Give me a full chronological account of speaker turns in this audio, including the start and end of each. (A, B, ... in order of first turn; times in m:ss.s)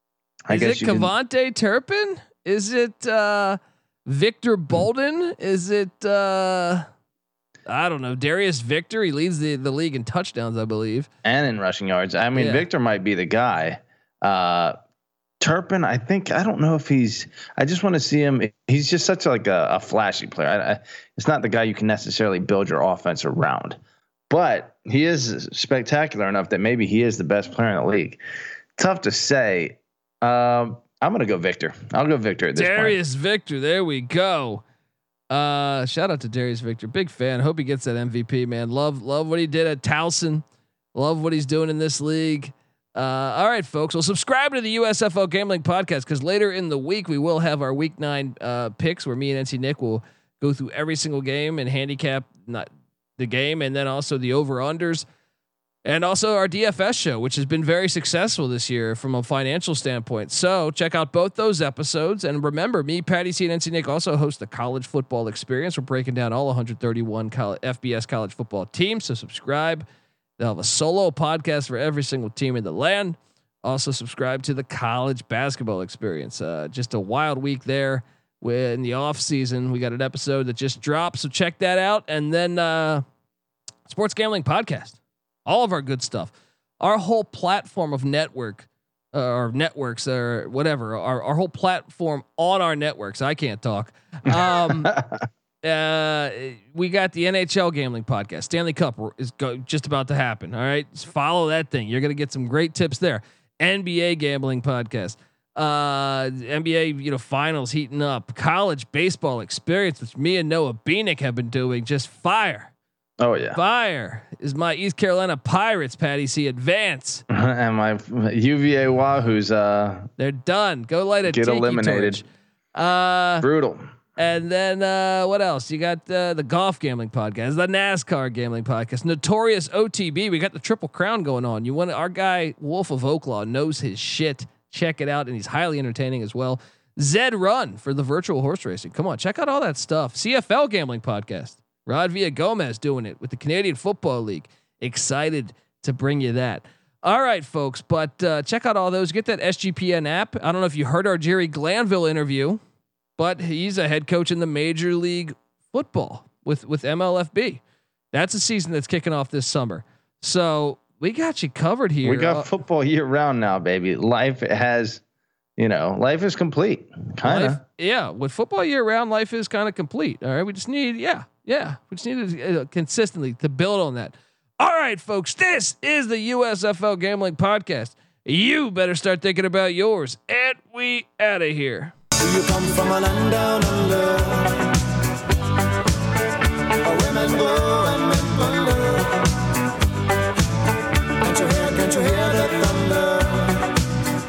0:00.5-0:01.1 A
0:00.5-0:06.8 B
0:07.7-0:11.1 B
0:11.2-0:14.8 A
0:12.3-0:12.6 B
0:15.4-0:23.8 A
0:24.3-0:28.2 A
0:28.8-0:33.0 A
0:32.5-0:34.6 B
0:35.3-0:55.0 B
0:55.8-1:09.8 B
1:10.4-1:23.0 B
1:23.9-1:34.9 B
1:34.3-1:35.2 A
1:35.6-1:52.7 B
1:53.2-1:53.6 A
1:53.5-1:57.2 B
1:57.3-2:00.1 A
2:00.2-2:03.5 B
2:01.2-2:02.2 A
2:03.4-2:03.9 A
2:04.2-2:32.6 B
2:33.2-2:37.6 B
2:38.1-2:42.5 B
2:42.0-2:45.0 A
2:45.6-2:47.6 A
2:47.2-3:01.9 B
3:02.2-3:04.6 C
3:06.8-3:09.2 C
3:11.2-3:13.7 C